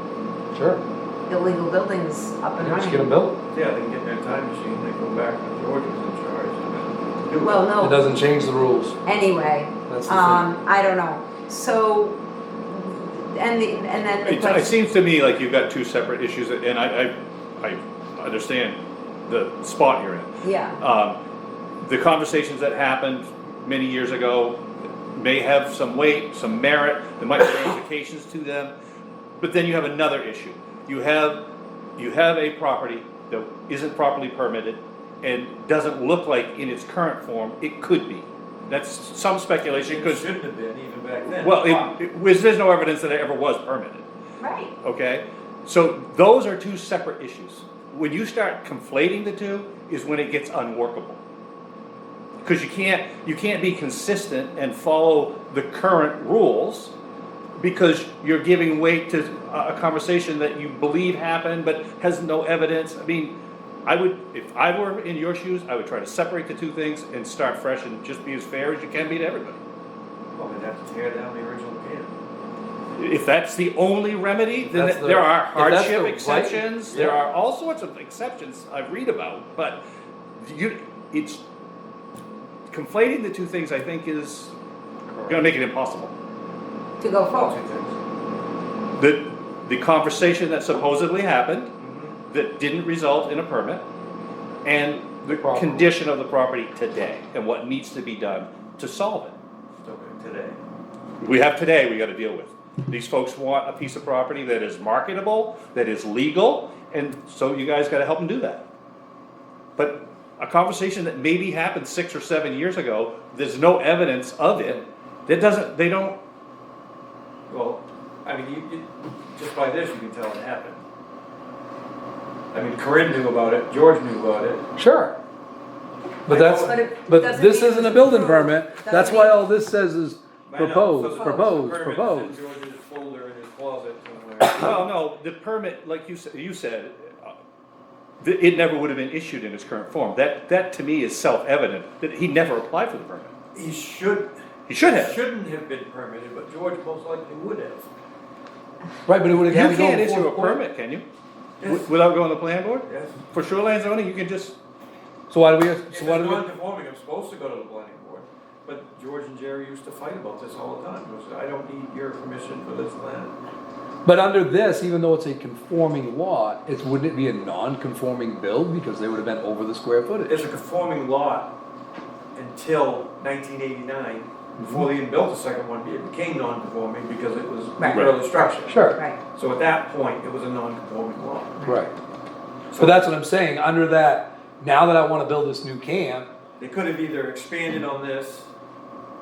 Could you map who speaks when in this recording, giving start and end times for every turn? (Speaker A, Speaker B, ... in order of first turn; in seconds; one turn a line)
Speaker A: 0.5-0.8
Speaker B: 1.3-3.1
Speaker A: 2.6-3.4
Speaker C: 3.5-7.7
Speaker B: 7.4-8.0
Speaker A: 7.8-9.0
Speaker B: 9.0-14.7
Speaker A: 9.9-10.4
Speaker D: 14.2-21.2
Speaker B: 20.4-20.8
Speaker D: 21.8-24.6
Speaker D: 25.1-28.7
Speaker D: 29.4-31.4
Speaker D: 32.0-40.2
Speaker C: 39.7-41.9
Speaker D: 41.3-44.0
Speaker B: 44.4-44.7
Speaker D: 44.8-51.2
Speaker D: 52.4-56.9
Speaker D: 57.6-63.3
Speaker D: 63.9-69.6
Speaker C: 70.3-72.1
Speaker D: 73.0-79.8
Speaker A: 74.7-77.2
Speaker D: 80.4-81.4
Speaker D: 82.7-84.5
Speaker A: 85.1-85.4
Speaker D: 85.2-86.1
Speaker B: 87.0-87.6
Speaker C: 87.3-88.0
Speaker D: 88.9-91.7
Speaker C: 91.8-92.2
Speaker D: 92.3-93.8
Speaker D: 94.6-99.3
Speaker A: 95.3-95.9
Speaker C: 99.8-100.6
Speaker D: 101.2-108.6
Speaker D: 109.8-116.2
Speaker C: 117.5-120.8
Speaker C: 122.5-124.6
Speaker A: 124.8-125.1
Speaker C: 126.3-126.8
Speaker A: 126.3-132.4
Speaker B: 126.5-129.4
Speaker C: 130.5-134.9
Speaker B: 131.1-131.5
Speaker D: 134.5-137.3
Speaker D: 138.2-143.3
Speaker C: 143.5-147.9
Speaker D: 144.7-145.2
Speaker A: 149.1-150.6
Speaker D: 149.4-151.0
Speaker C: 151.6-151.9
Speaker D: 151.6-154.6
Speaker C: 152.8-153.2
Speaker A: 155.3-156.4
Speaker C: 155.9-163.3
Speaker A: 164.0-170.4
Speaker C: 170.3-171.5
Speaker C: 172.3-181.6
Speaker A: 174.6-174.9
Speaker B: 177.8-178.1
Speaker A: 178.7-179.0
Speaker A: 181.6-181.9
Speaker C: 182.7-183.1
Speaker A: 182.8-186.3
Speaker C: 186.6-188.5